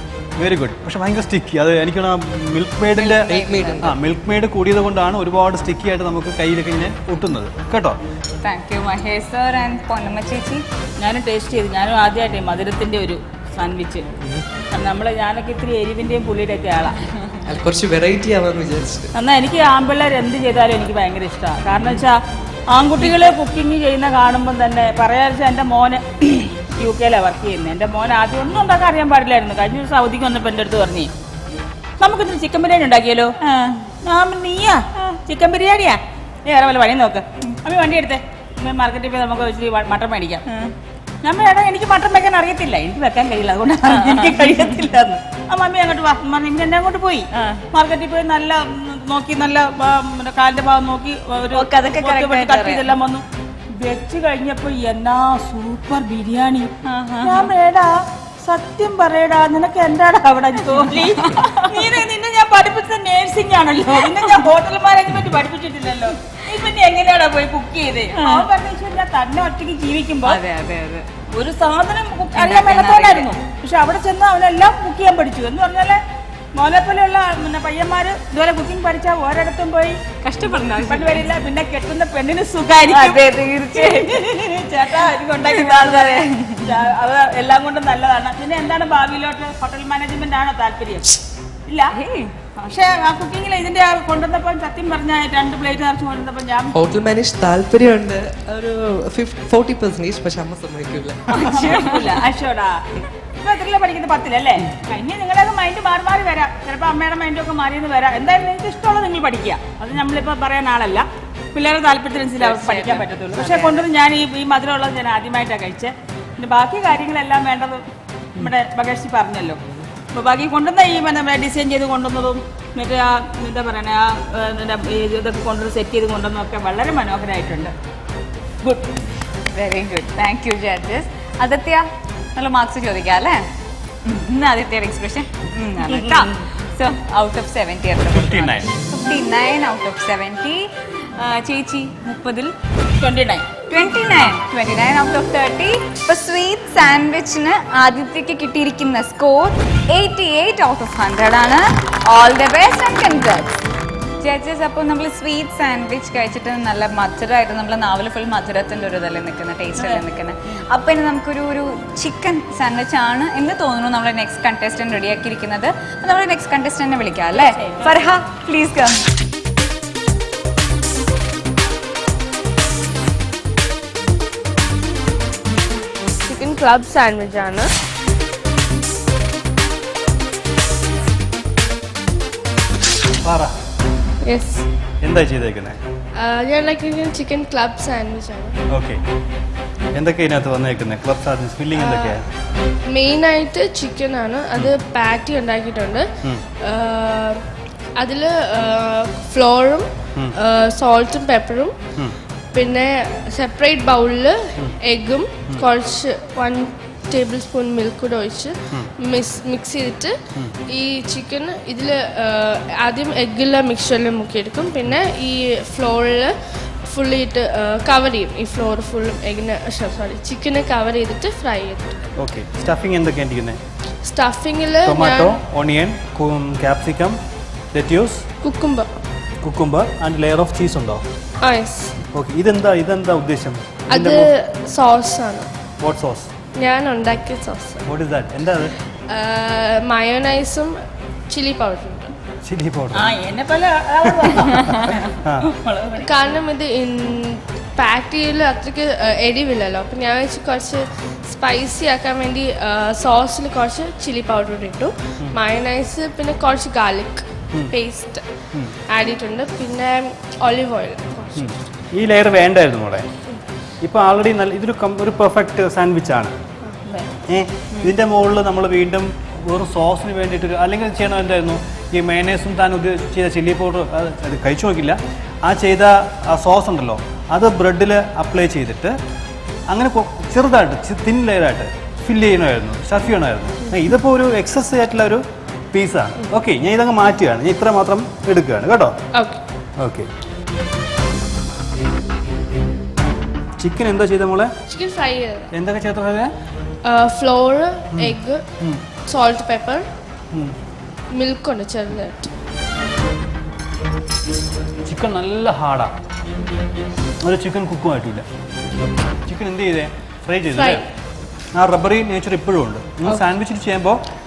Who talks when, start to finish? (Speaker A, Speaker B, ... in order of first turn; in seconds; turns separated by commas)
Speaker A: 0.4-3.3, Speaker B: 2.9-3.9, Speaker C: 3.3-4.0, Speaker A: 3.8-8.0, Speaker B: 8.4-10.6, Speaker D: 11.0-14.0, Speaker D: 14.7-17.0, Speaker B: 17.1-17.4, Speaker C: 17.4-19.1, Speaker D: 19.1-22.2, Speaker D: 22.7-31.1, Speaker D: 32.0-33.3, Speaker B: 33.4-33.9, Speaker D: 34.0-40.4, Speaker B: 40.5-40.7, Speaker D: 41.2-53.2, Speaker B: 43.9-44.6, Speaker B: 47.3-47.6, Speaker B: 51.5-52.9, Speaker D: 53.7-56.7, Speaker B: 56.8-57.5, Speaker D: 57.2-70.4, Speaker B: 60.7-61.9, Speaker B: 68.1-68.5, Speaker B: 70.2-71.1, Speaker D: 71.3-76.0, Speaker B: 72.3-73.3, Speaker D: 76.5-80.0, Speaker B: 80.2-81.2, Speaker D: 80.5-91.9, Speaker B: 82.9-84.2, Speaker B: 85.4-86.7, Speaker B: 91.9-92.3, Speaker D: 92.6-96.7, Speaker C: 96.7-101.8, Speaker B: 101.4-102.1, Speaker D: 101.4-102.8, Speaker D: 103.3-117.8, Speaker B: 112.4-113.8, Speaker D: 118.3-119.6, Speaker D: 120.1-127.7, Speaker D: 128.6-128.9, Speaker B: 129.5-131.8, Speaker B: 132.3-133.4, Speaker B: 134.0-142.5, Speaker D: 135.9-136.2, Speaker A: 138.1-138.7, Speaker D: 143.0-143.4, Speaker B: 143.7-153.5, Speaker B: 154.2-169.0, Speaker D: 159.8-160.1, Speaker D: 167.3-168.1, Speaker E: 176.0-177.7, Speaker A: 183.2-183.5, Speaker E: 184.2-184.7, Speaker A: 185.0-185.8, Speaker E: 186.1-188.6, Speaker A: 188.7-189.0, Speaker A: 189.9-192.2, Speaker E: 191.8-192.2, Speaker E: 192.8-196.1, Speaker E: 196.6-197.4, Speaker E: 197.9-201.8, Speaker E: 202.5-221.9, Speaker A: 222.2-223.6, Speaker E: 224.0-225.4, Speaker A: 224.8-227.2, Speaker A: 227.7-228.2, Speaker E: 228.4-228.9, Speaker A: 229.4-231.0, Speaker E: 231.4-231.9, Speaker A: 232.1-234.3, Speaker E: 233.9-235.5, Speaker A: 235.8-236.3, Speaker E: 236.5-237.8, Speaker A: 237.8-238.7, Speaker E: 239.1-240.8, Speaker E: 241.3-242.1, Speaker A: 242.4-243.1, Speaker D: 242.9-246.1, Speaker E: 246.0-258.3, Speaker E: 258.8-261.6, Speaker A: 261.4-263.1, Speaker A: 263.8-266.3, Speaker A: 267.3-278.9, Speaker A: 279.7-288.9, Speaker E: 289.1-289.4, Speaker A: 289.8-290.1, Speaker A: 293.6-294.5, Speaker E: 294.7-295.5, Speaker A: 295.5-296.3, Speaker E: 296.8-298.4, Speaker A: 297.9-298.8, Speaker E: 299.1-299.8, Speaker E: 301.1-302.3, Speaker A: 304.9-305.9, Speaker A: 307.2-308.2, Speaker A: 309.2-310.8, Speaker E: 310.5-310.8, Speaker A: 311.6-314.0